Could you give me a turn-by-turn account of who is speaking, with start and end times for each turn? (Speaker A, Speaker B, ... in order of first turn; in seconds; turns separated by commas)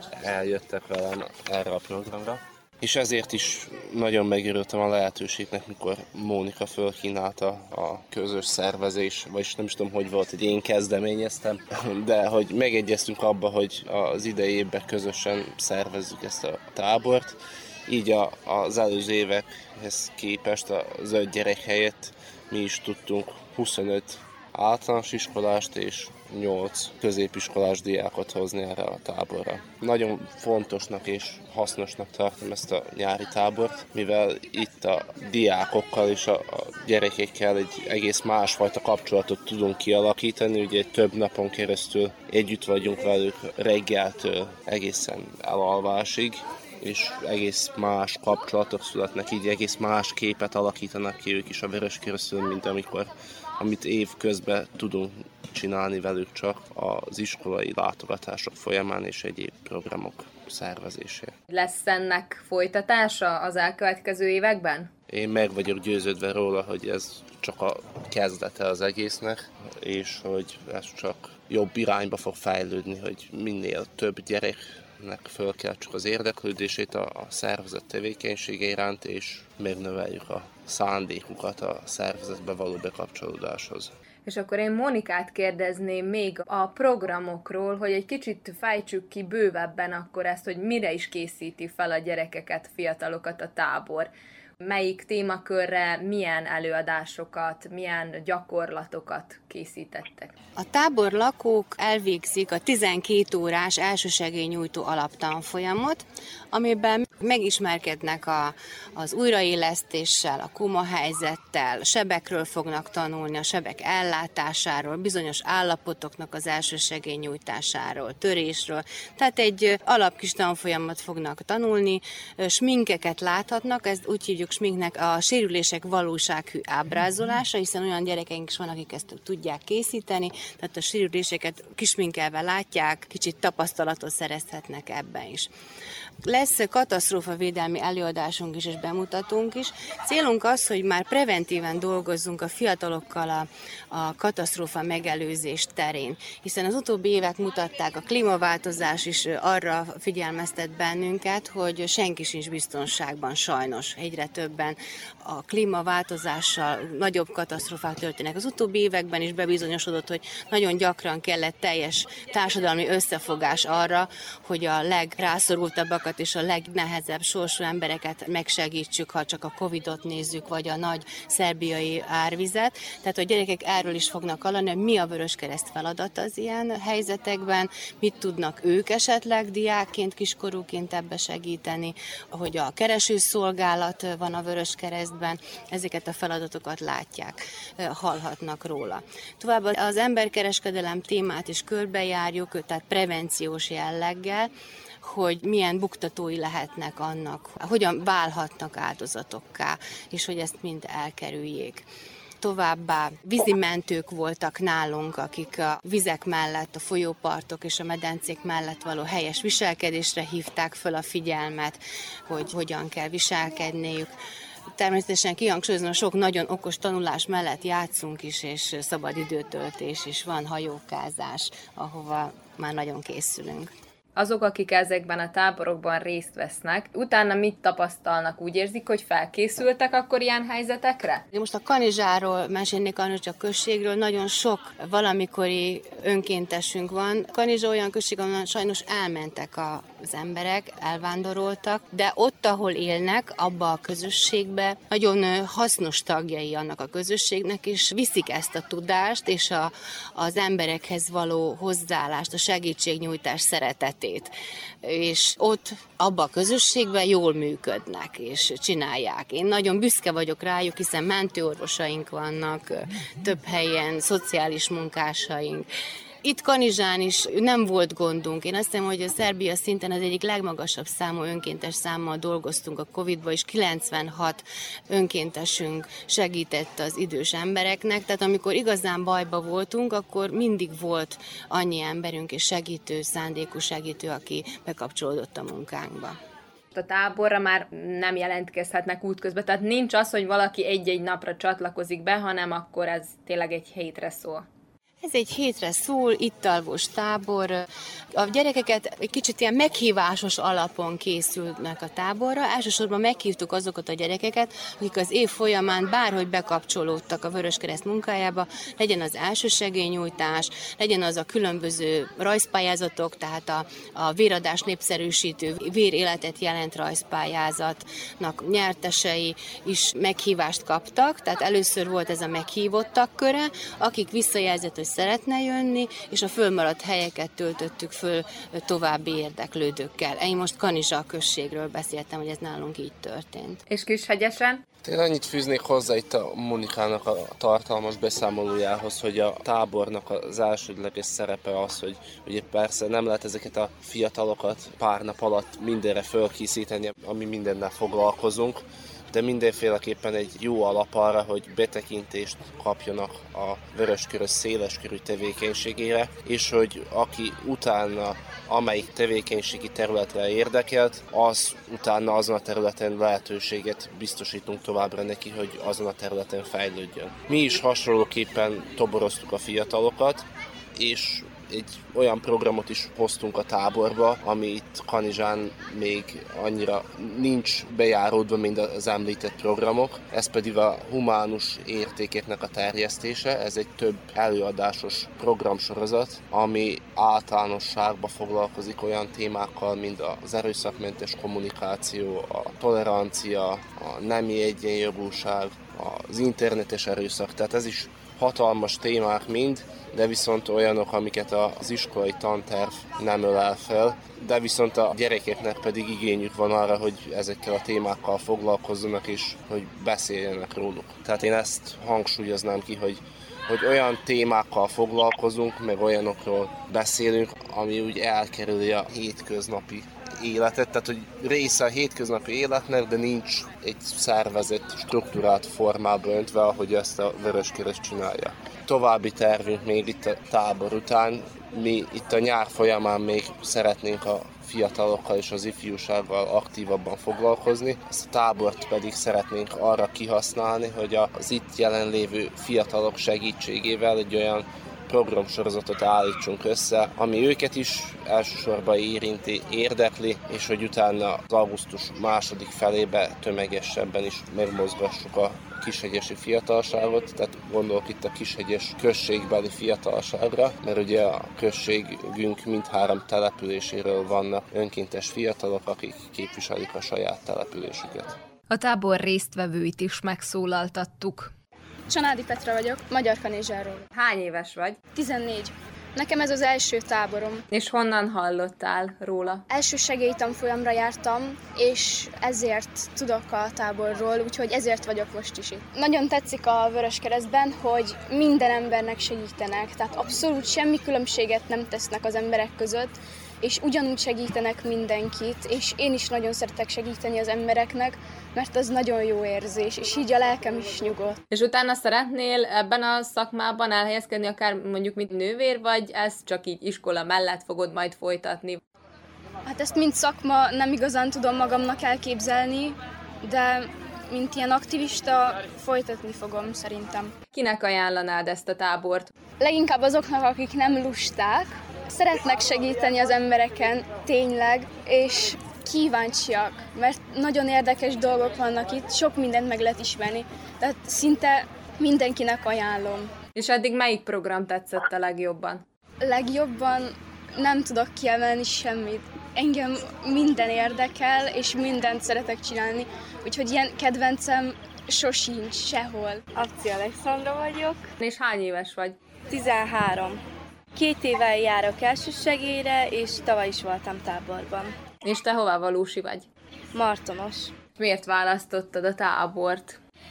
Speaker A: 0.2-61.3, Speaker B: 61.5-64.9, Speaker A: 65.1-83.9, Speaker B: 84.2-100.3, Speaker C: 100.6-135.5, Speaker C: 136.2-194.5, Speaker C: 195.0-201.8, Speaker C: 202.4-214.1, Speaker C: 214.7-223.7, Speaker B: 224.2-231.2, Speaker C: 231.3-265.7, Speaker C: 266.2-286.2, Speaker B: 286.7-294.4, Speaker C: 295.0-333.6, Speaker B: 333.7-334.6, Speaker A: 334.8-468.2, Speaker B: 468.5-471.3, Speaker D: 471.9-473.9, Speaker B: 473.9-474.8, Speaker D: 474.9-477.4, Speaker B: 477.5-479.4, Speaker D: 479.5-501.2, Speaker B: 501.3-508.6, Speaker D: 509.4-517.1, Speaker B: 517.3-519.1, Speaker D: 519.4-533.1, Speaker B: 533.4-535.6, Speaker D: 536.0-546.2, Speaker E: 546.3-547.9, Speaker B: 548.0-549.0, Speaker E: 549.3-550.2, Speaker E: 550.7-554.7, Speaker B: 555.0-556.3, Speaker E: 556.7-557.5, Speaker B: 557.8-559.8